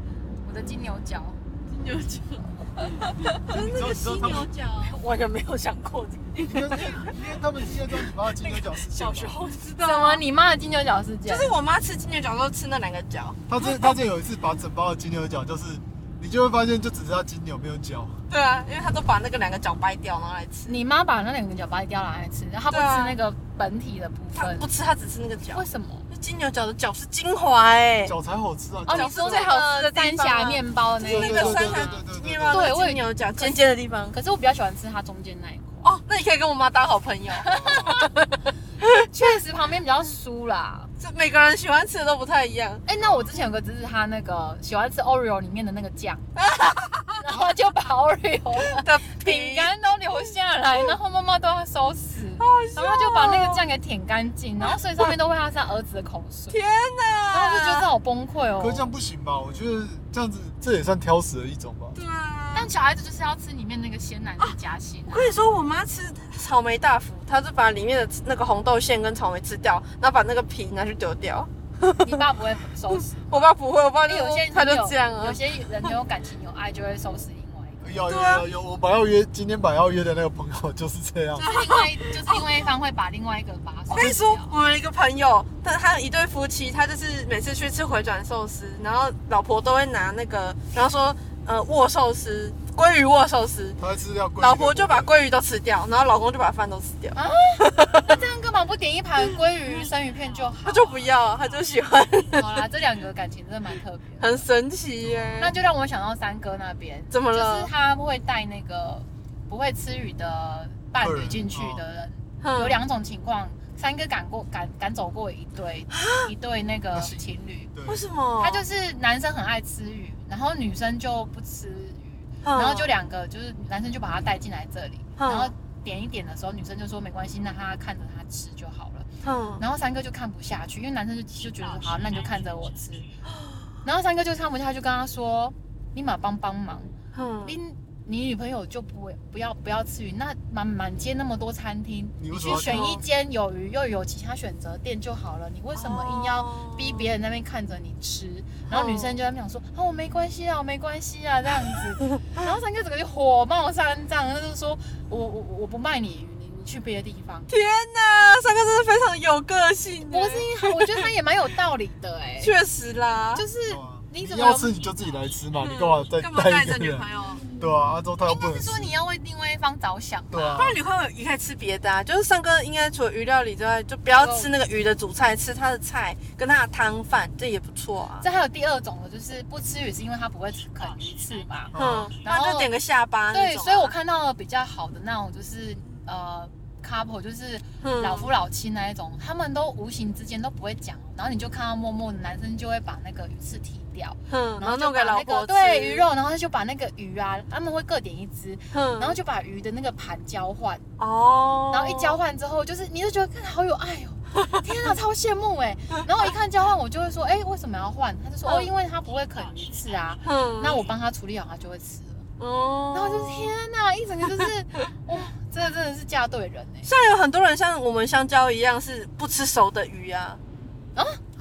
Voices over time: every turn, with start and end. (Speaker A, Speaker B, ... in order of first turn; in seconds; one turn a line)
Speaker A: 0.4-1.4
Speaker B: 1.6-2.5
Speaker A: 2.8-3.5
Speaker B: 3.4-5.0
Speaker C: 3.5-4.5
Speaker A: 4.8-7.1
Speaker C: 6.4-9.4
Speaker A: 8.1-9.1
Speaker B: 8.9-10.2
Speaker A: 9.8-11.5
Speaker B: 11.2-13.9
Speaker C: 13.5-18.2
Speaker B: 18.3-20.8
Speaker A: 20.7-24.7
Speaker B: 22.7-23.2
Speaker B: 24.3-28.1
Speaker A: 25.5-26.1
Speaker C: 28.1-29.5
Speaker A: 28.9-31.9
Speaker B: 28.9-34.2
Speaker C: 31.0-32.7
Speaker A: 32.5-35.9
Speaker B: 35.8-38.1
Speaker A: 37.4-38.0
Speaker C: 37.4-38.0
Speaker B: 38.8-39.0
Speaker A: 39.1-40.9
Speaker B: 41.0-42.8
Speaker A: 42.9-46.4
Speaker C: 43.0-43.4
Speaker B: 46.4-47.3
Speaker A: 47.2-56.6
Speaker B: 48.5-49.7
Speaker B: 52.4-53.6
Speaker B: 54.8-55.1
Speaker B: 56.5-57.9
Speaker A: 57.3-58.9
Speaker C: 58.6-62.0
Speaker B: 61.9-62.7
Speaker A: 62.5-65.4
Speaker B: 64.4-72.2
Speaker A: 72.0-73.5
Speaker B: 72.9-75.9
Speaker A: 74.0-77.8
Speaker C: 77.8-81.5
Speaker B: 78.0-78.5
Speaker B: 81.3-82.5
Speaker A: 81.5-84.5
Speaker B: 83.9-93.8
Speaker C: 93.8-95.1
Speaker B: 94.4-98.2
Speaker A: 97.1-101.1
Speaker B: 100.6-102.6
Speaker A: 102.3-104.5
Speaker B: 104.2-105.5
Speaker C: 105.0-105.5
Speaker A: 105.4-117.7
Speaker B: 107.1-107.7
Speaker C: 111.0-111.8
Speaker B: 112.4-112.8
Speaker B: 115.9-116.3
Speaker C: 116.9-118.0
Speaker B: 117.8-118.7
Speaker A: 118.4-129.1
Speaker B: 122.4-122.9
Speaker B: 125.2-125.5
Speaker B: 129.2-129.6
Speaker A: 129.6-133.1
Speaker B: 133.3-133.7
Speaker A: 133.8-157.5
Speaker B: 137.1-137.6
Speaker C: 142.2-142.9
Speaker B: 142.5-143.0
Speaker B: 145.7-147.1
Speaker B: 148.7-149.2
Speaker B: 157.5-161.1
Speaker A: 160.1-162.6
Speaker B: 162.4-163.4
Speaker A: 163.3-164.8
Speaker C: 163.7-169.0
Speaker B: 165.6-167.5
Speaker A: 168.2-170.7
Speaker C: 170.3-170.8
Speaker B: 170.5-178.2
Speaker A: 174.1-174.5
Speaker A: 178.2-182.7
Speaker C: 181.7-182.1
Speaker B: 181.7-184.0
Speaker A: 183.3-200.8
Speaker B: 187.8-188.3
Speaker B: 194.3-196.1
Speaker B: 198.7-199.2
Speaker B: 201.0-202.2
Speaker A: 201.7-212.3
Speaker B: 208.4-208.7
Speaker B: 210.2-210.8
Speaker B: 212.4-213.6
Speaker A: 212.9-216.9
Speaker B: 216.8-220.4
Speaker A: 220.9-221.2